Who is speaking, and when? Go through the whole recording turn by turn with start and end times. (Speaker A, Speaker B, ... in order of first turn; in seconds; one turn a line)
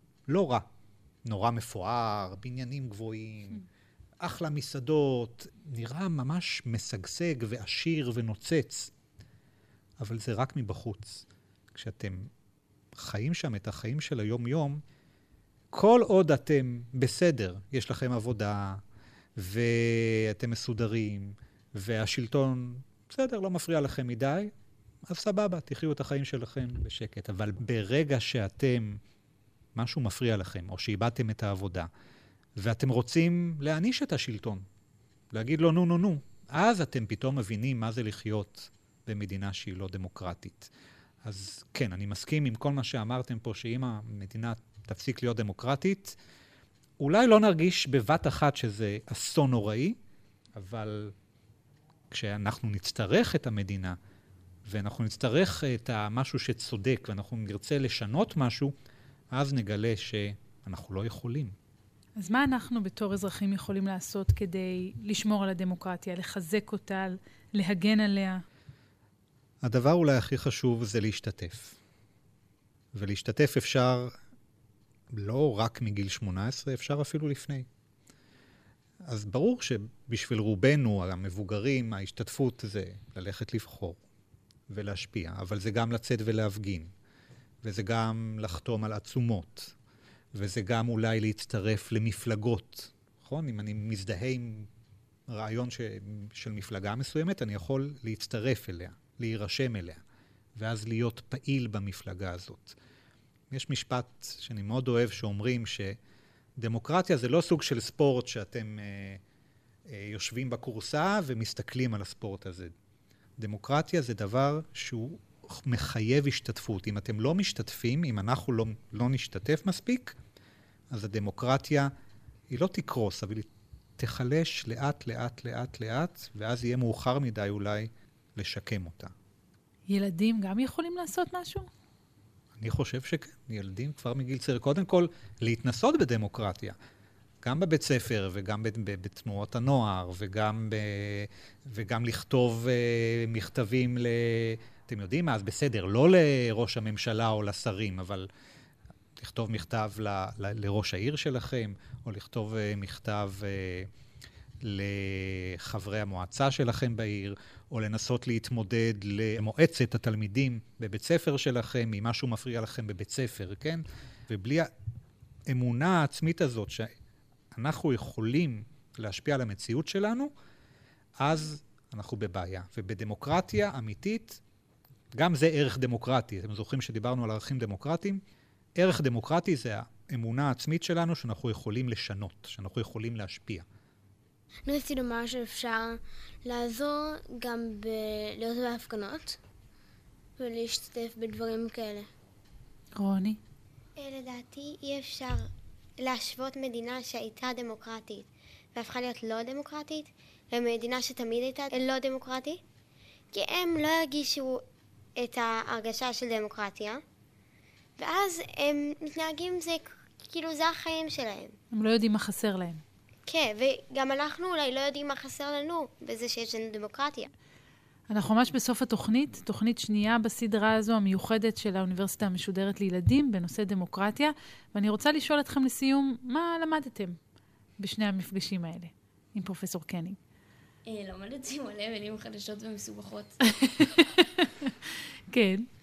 Speaker A: 0.3-0.7
Speaker A: 1.2-3.6
Speaker A: 4.2-8.9
Speaker A: 10.0-12.3
Speaker A: 12.9-14.8
Speaker A: 15.7-18.8
Speaker A: 19.4-24.5
Speaker A: 25.1-29.0
Speaker A: 29.8-31.9
Speaker A: 32.6-34.7
Speaker A: 35.3-40.7
Speaker A: 41.2-46.2
Speaker A: 47.0-50.0
Speaker A: 50.6-51.1
Speaker A: 52.1-54.0
Speaker A: 54.6-58.7
Speaker A: 59.3-61.5
Speaker B: 62.2-68.4
Speaker A: 69.6-71.8
Speaker A: 72.9-74.2
Speaker A: 75.1-77.7
Speaker A: 79.0-84.0
Speaker A: 84.7-86.9
Speaker A: 87.6-89.8
Speaker A: 90.3-94.7
Speaker A: 95.3-100.0
Speaker A: 100.6-102.8
Speaker A: 103.5-106.0
Speaker A: 106.6-109.2
Speaker A: 109.9-112.7
Speaker A: 113.4-120.2
Speaker A: 120.9-121.9
Speaker A: 122.5-129.1
Speaker B: 129.9-131.7
Speaker A: 132.6-136.8
Speaker A: 137.4-148.3
Speaker A: 149.2-153.9
Speaker A: 154.6-164.7
Speaker A: 165.5-166.9
Speaker A: 167.5-170.3
Speaker A: 171.2-174.4
Speaker A: 175.1-178.2
Speaker A: 178.8-183.7
Speaker C: 184.7-189.4
Speaker C: 190.4-192.1
Speaker B: 193.0-193.4
Speaker D: 194.0-202.6
Speaker D: 203.3-204.6
Speaker D: 205.2-207.0
Speaker D: 208.0-211.5
Speaker B: 211.7-212.8
Speaker D: 213.3-217.3
Speaker B: 218.1-227.2
Speaker B: 227.8-230.2
Speaker E: 230.9-233.4
Speaker B: 233.6-234.7
Speaker B: 235.3-235.7